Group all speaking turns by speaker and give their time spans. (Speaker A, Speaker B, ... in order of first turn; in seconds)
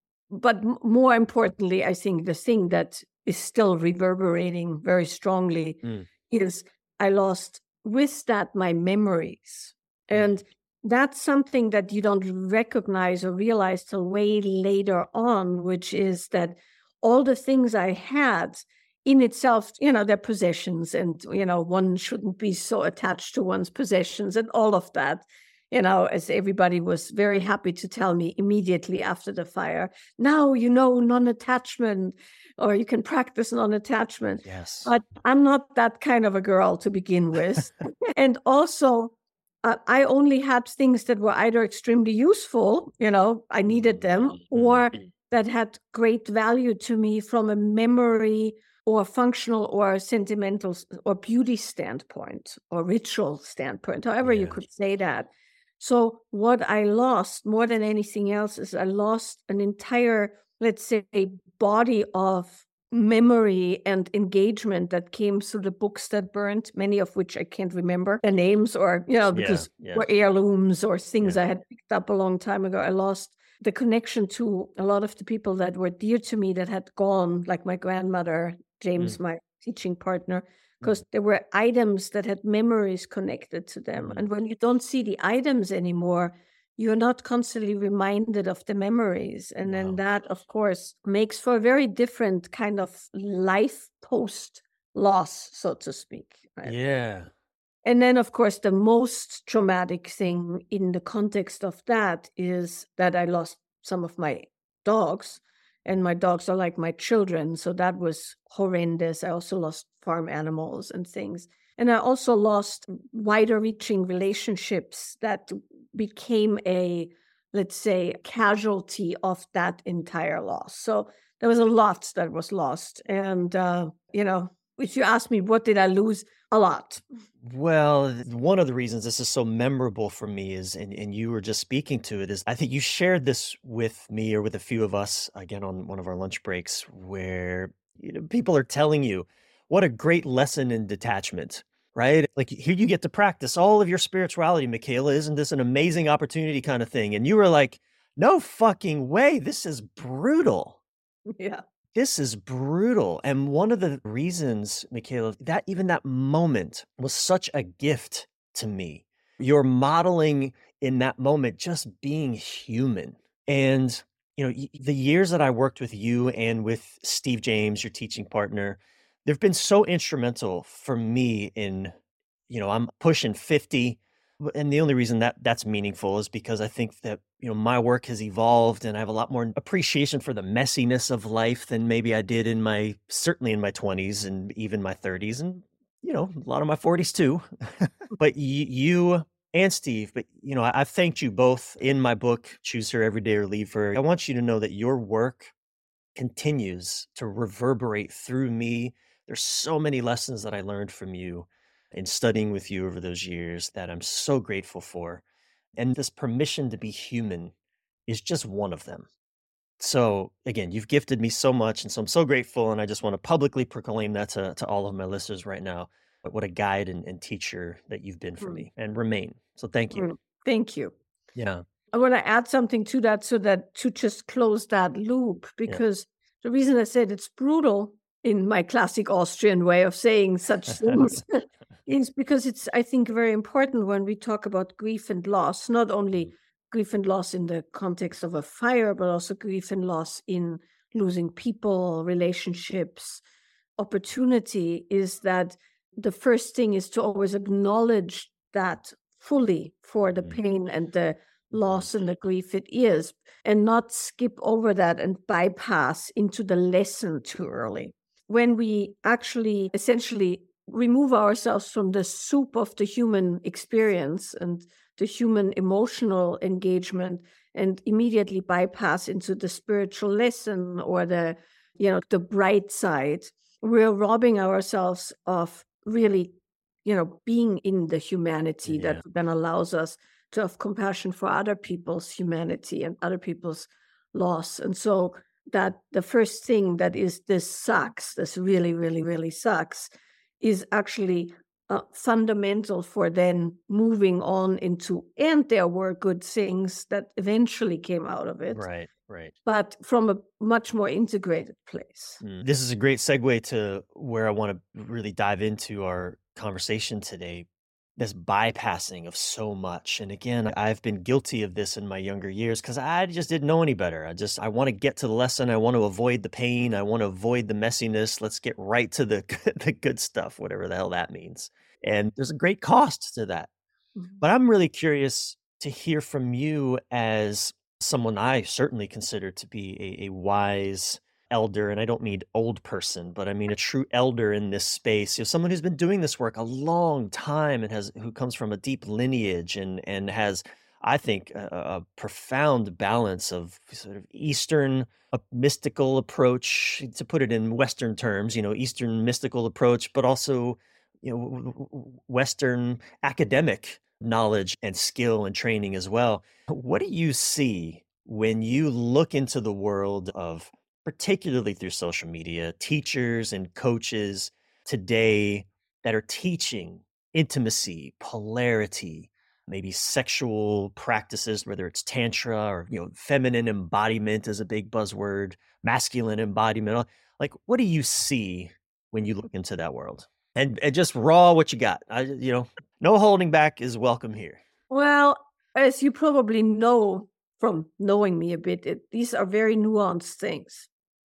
Speaker A: 0.3-96.7, 97.8-127.0, 151.4-151.6, 219.9-220.9, 221.9-243.2, 243.8-276.3, 276.8-289.9, 290.4-298.6, 299.4-302.2, 384.7-390.7
Speaker B: 34.4-34.9, 44.5-44.8, 54.2-54.5, 69.3-70.0, 89.7-90.0, 96.6-97.3, 127.4-150.8, 151.9-171.9, 172.5-195.5, 196.2-205.2, 205.8-207.5, 208.1-209.1, 209.8-220.1, 221.3-221.6, 278.7-279.0, 298.5-299.3, 302.2-323.5, 324.2-384.4